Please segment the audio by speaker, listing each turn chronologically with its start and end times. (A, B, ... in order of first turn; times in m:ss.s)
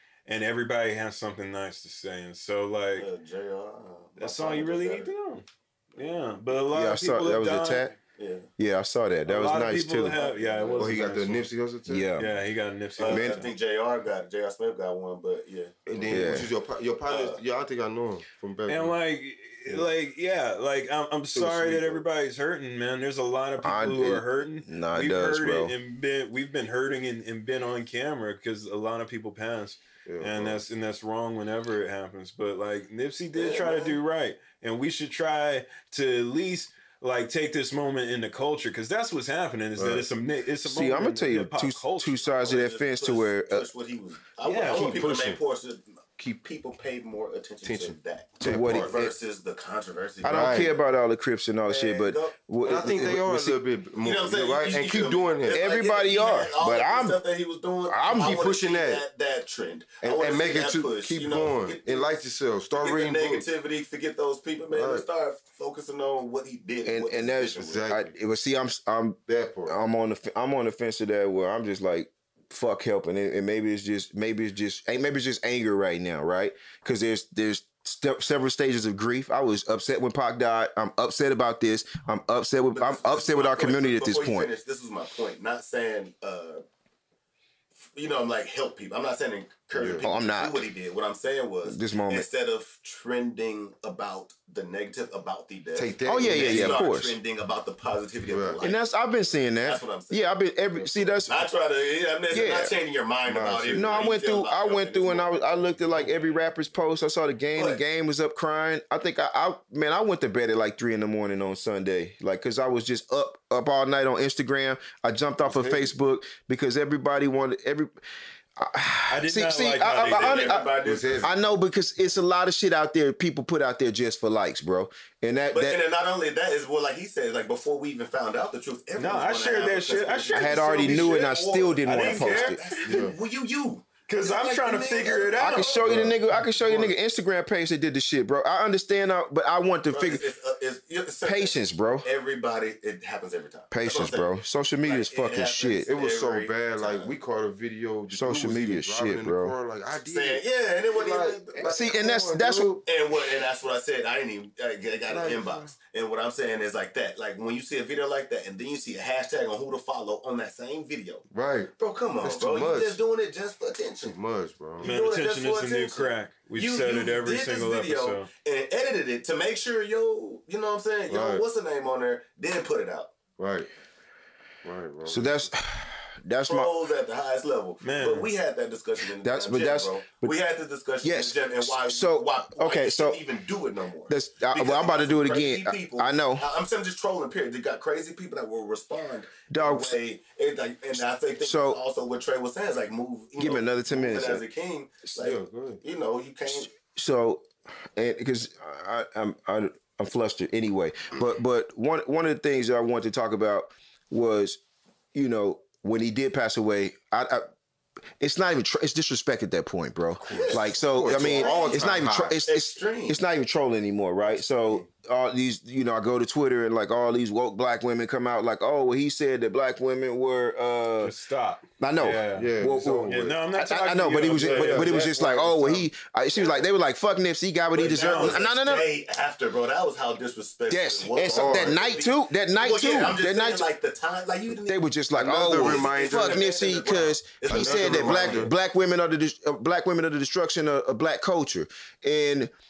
0:00.3-0:03.1 A
0:03.0-0:05.1 B
0:04.2-0:08.0 A
0:06.7-0:07.9 C
0:08.2-0:08.5 B
0:08.6-0:10.2 C
0:09.3-0:11.5 A
0:10.1-0:11.1 B
0:10.8-0:12.1 D
0:11.9-0:12.3 C
0:12.2-0:13.5 A
0:13.0-0:16.5 B
0:13.1-0:13.4 C
0:15.9-0:19.0 D
0:16.1-0:16.5 C
0:17.1-0:17.4 B
0:18.7-0:42.6 A
0:21.3-0:22.0 D
0:23.6-0:25.7 C
0:30.0-0:30.6 D
0:33.4-0:34.0 B
0:39.8-0:40.1 D
0:40.6-0:43.7 C
0:42.4-0:50.7 B
0:44.4-0:45.0 A
0:44.7-0:45.4 D
0:47.6-0:49.0 D
0:48.4-0:49.1 C
0:50.2-0:53.6 C
0:50.3-0:50.7 D
0:51.7-0:53.1 B
0:52.6-0:55.6 D
0:54.0-1:02.1 B
0:55.5-0:57.2 C
0:57.9-0:58.4 C
0:58.2-0:59.0 D
1:00.0-1:03.5 D
1:02.8-1:07.9 B
1:04.7-1:05.1 D
1:06.8-1:24.5 C
1:07.6-1:08.1 D
1:09.3-1:09.7 D
1:22.7-1:26.6 B
1:27.8-1:38.8 B
1:29.7-1:30.1 D
1:30.0-1:30.6 C
1:31.6-1:32.2 C
1:35.8-1:36.8 D
1:36.0-1:37.2 C
1:38.3-1:38.6 D
1:38.6-1:41.4 C
1:39.6-1:40.2 B
1:40.9-1:45.4 B
1:42.3-1:42.7 C
1:43.2-1:44.1 D
1:43.7-1:57.9 C
1:46.0-1:46.3 B
1:47.6-1:47.8 B
1:55.4-1:55.9 D
1:58.6-2:00.7 C
1:59.1-2:00.6 A
2:00.1-2:01.3 B
2:00.8-2:01.3 D
2:01.2-2:05.8 C
2:05.5-2:16.0 B
2:09.0-2:13.0 A
2:10.3-2:12.6 C
2:12.8-2:13.2 D
2:14.1-2:15.8 A
2:15.4-2:20.2 C
2:15.8-2:16.9 D
2:19.9-2:24.3 B
2:21.2-2:22.1 C
2:23.7-2:25.9 C
2:24.8-2:27.1 B
2:25.8-2:32.8 D
2:28.1-2:29.5 C
2:30.0-2:32.0 B
2:31.6-2:32.7 C
2:32.8-2:44.2 B
2:35.1-2:35.8 D
2:41.3-2:43.0 D
2:44.0-2:44.9 D
2:44.8-2:53.1 B
2:44.8-2:48.3 A
2:51.1-2:51.4 D
2:53.4-2:53.7 D
2:54.6-2:55.5 D
2:55.1-2:56.7 C
2:56.5-3:16.7 B
2:57.8-2:58.3 A
2:59.2-3:00.3 C
3:01.0-3:03.2 C
3:04.1-3:06.5 C
3:09.5-3:10.0 C
3:11.4-3:11.8 C
3:13.4-3:14.4 C
3:15.1-3:15.8 D
3:16.5-3:24.6 C
3:25.1-3:27.5 C
3:28.2-3:41.1 C
3:30.2-3:30.6 A
3:30.3-3:33.2 B
3:30.6-3:32.4 D
3:41.0-3:45.0 A
3:41.8-3:48.9 C
3:42.4-3:43.4 D
3:44.2-3:45.9 D
3:46.3-3:46.6 B
3:47.7-3:54.8 B
3:47.8-3:48.4 A
3:50.7-3:53.7 C
3:51.3-3:51.8 D
3:54.5-4:02.5 C
3:55.1-3:56.7 D
3:55.5-3:58.5 B
3:57.5-3:58.5 D